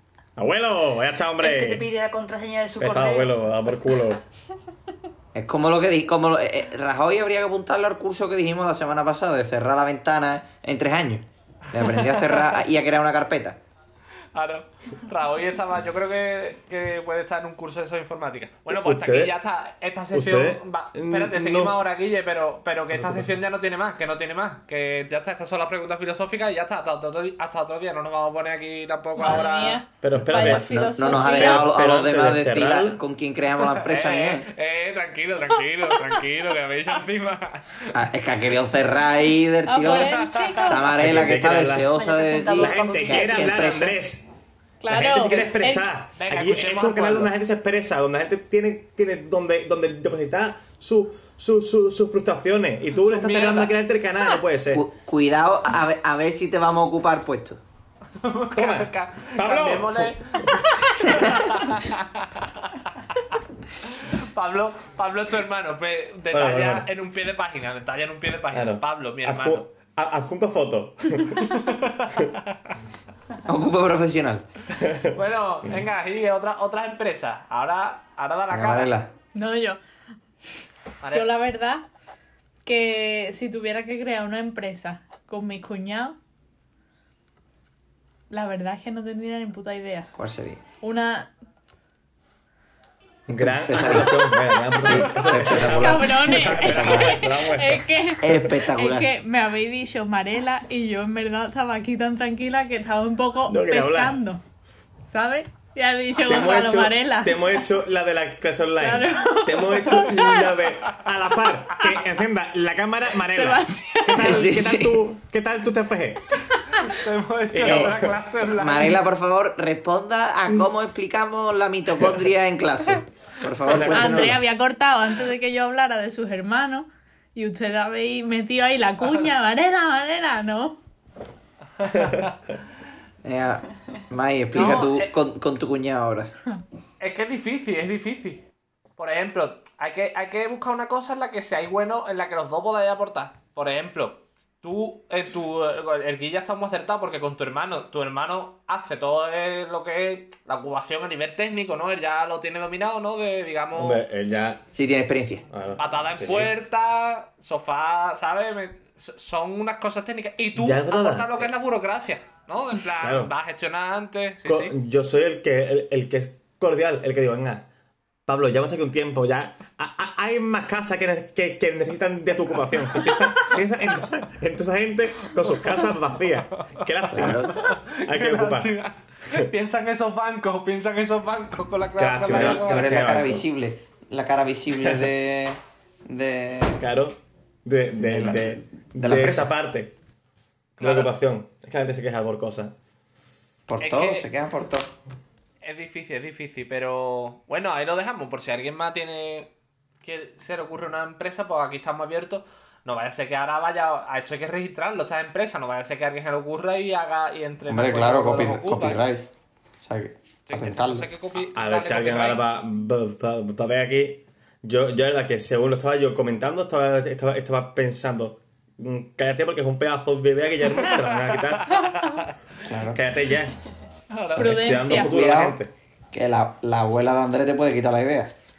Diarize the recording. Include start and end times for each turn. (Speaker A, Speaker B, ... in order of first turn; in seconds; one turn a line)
Speaker A: 0.3-1.9
Speaker B: 1.4-3.4
Speaker A: 2.8-4.2
Speaker C: 5.3-13.6
Speaker D: 11.7-12.6
Speaker D: 14.3-29.8
Speaker A: 18.7-19.3
Speaker A: 20.1-21.9
Speaker A: 22.9-23.3
Speaker E: 29.2-31.8
Speaker A: 30.0-33.0
Speaker C: 30.2-34.5
Speaker D: 33.6-37.9
Speaker C: 37.9-44.0
Speaker E: 39.6-41.0
Speaker D: 39.9-40.8
Speaker A: 40.9-41.9
Speaker B: 41.9-43.8
Speaker A: 42.5-44.2
Speaker E: 44.8-45.9
Speaker A: 44.9-54.8
Speaker D: 45.2-45.5
Speaker D: 46.1-47.3
Speaker D: 52.9-53.8
Speaker C: 54.7-57.6
Speaker D: 58.2-69.7
Speaker A: 58.5-60.6
Speaker A: 66.3-66.9
Speaker A: 68.5-71.6
Speaker D: 71.3-72.8
Speaker C: 73.4-74.4
Speaker A: 74.8-75.1
Speaker D: 75.1-78.9
Speaker C: 78.5-79.1
Speaker E: 79.3-79.8
Speaker D: 81.0-81.3
Speaker E: 81.1-81.8
Speaker E: 82.6-86.2
Speaker E: 88.3-90.1
Speaker C: 90.2-90.6
Speaker E: 90.8-91.3
Speaker A: 93.3-97.9
Speaker C: 93.3-97.2
Speaker E: 95.4-104.4
Speaker C: 98.2-99.1
Speaker A: 103.5-104.2
Speaker E: 105.0-107.6
Speaker A: 106.2-116.4
Speaker E: 108.8-110.6
Speaker E: 113.2-114.5
Speaker C: 114.1-115.0
Speaker E: 116.3-116.8
Speaker D: 116.8-119.0
Speaker A: 117.5-118.2
Speaker C: 117.6-118.0
Speaker C: 118.6-124.4
Speaker A: 123.7-124.4
Speaker E: 123.8-130.8
Speaker D: 131.8-132.3
Speaker A: 131.9-132.3
Speaker C: 133.2-136.3
Speaker D: 134.5-135.1
Speaker D: 137.0-138.4
Speaker D: 139.0-154.0
Speaker A: 153.7-154.6
Speaker C: 154.7-155.4
Speaker A: 155.5-156.5
Speaker D: 155.8-164.7
Speaker A: 160.5-161.5
Speaker A: 163.0-163.3
Speaker A: 164.4-167.7
Speaker A: 168.2-178.7
Speaker D: 173.0-173.6
Speaker D: 175.4-175.9
Speaker C: 177.1-177.6
Speaker D: 177.2-183.0
Speaker A: 182.0-183.4
Speaker C: 182.2-186.8
Speaker A: 186.8-189.9
Speaker C: 188.0-189.5
Speaker D: 190.8-191.1
Speaker A: 190.8-192.7
Speaker C: 193.7-194.9
Speaker D: 193.8-194.3
Speaker D: 195.6-199.5
Speaker D: 200.0-209.0
Speaker C: 207.7-209.2
Speaker C: 209.8-211.1
Speaker D: 210.5-212.4
Speaker A: 211.5-221.8
Speaker D: 220.8-222.4
Speaker C: 222.6-223.0
Speaker A: 222.8-223.6
Speaker D: 224.1-224.5
Speaker E: 224.3-225.1
Speaker A: 224.4-225.7
Speaker C: 224.4-225.6
Speaker C: 226.1-228.3